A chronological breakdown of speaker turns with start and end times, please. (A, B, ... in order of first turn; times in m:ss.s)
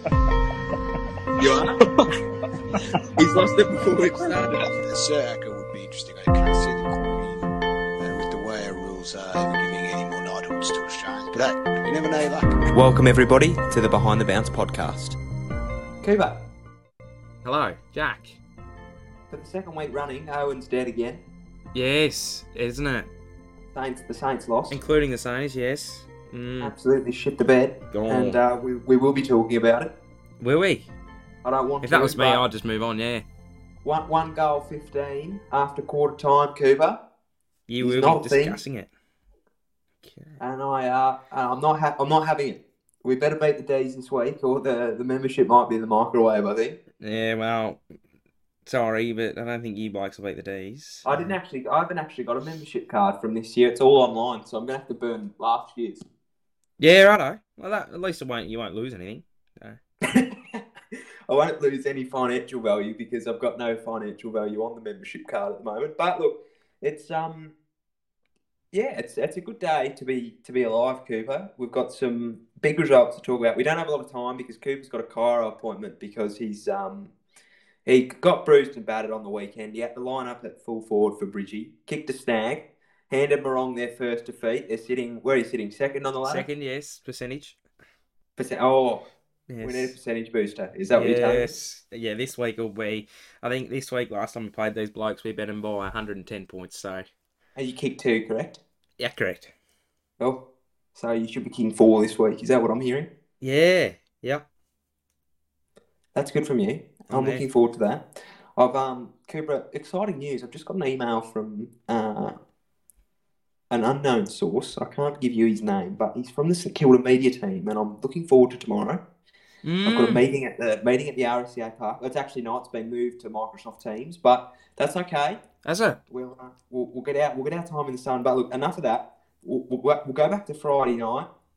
0:01.4-0:01.8 A
0:03.1-0:04.6 A
0:04.5-0:07.5 B
0:08.0-0:12.6 B
0:12.7-0:15.2 A
0:16.0-0:16.4 A
0:17.4-0:18.4 C
0:19.3-0:21.2 A
0:21.7-0:23.1 C
0:23.7-0:24.8 A
0:24.7-0:26.7 C
0:26.6-0:29.9 A
0:27.9-0:28.4 C
0:30.4-0:30.9 C
0:31.4-0:32.4 A
0:31.8-0:33.2 C
0:33.8-0:37.0 A
0:37.7-0:38.9 C
0:37.8-0:38.6 A
0:40.0-0:40.4 C
0:40.4-0:46.8 A
0:47.0-0:47.8 C
0:48.6-0:51.3 C
0:51.0-0:56.0 A
0:56.8-0:59.8 C
1:00.1-1:00.6 A
1:01.3-1:07.5 A
1:08.7-1:17.1 A
1:17.8-1:26.4 A
1:26.2-1:27.6 C
1:28.4-1:29.0 A
1:29.5-1:30.0 C
1:29.6-1:31.5 A
1:30.9-1:37.1 C
1:37.6-1:38.6 A
1:39.0-1:39.5 C
1:40.9-1:43.1 A
1:43.4-1:44.4 C
1:46.1-1:48.0 A
1:47.1-1:47.4 C
1:48.6-1:52.3 A
1:53.7-1:59.0 A
1:59.6-2:00.2 C
1:59.8-2:05.4 A
2:05.6-2:06.0 C
2:06.1-2:11.3 A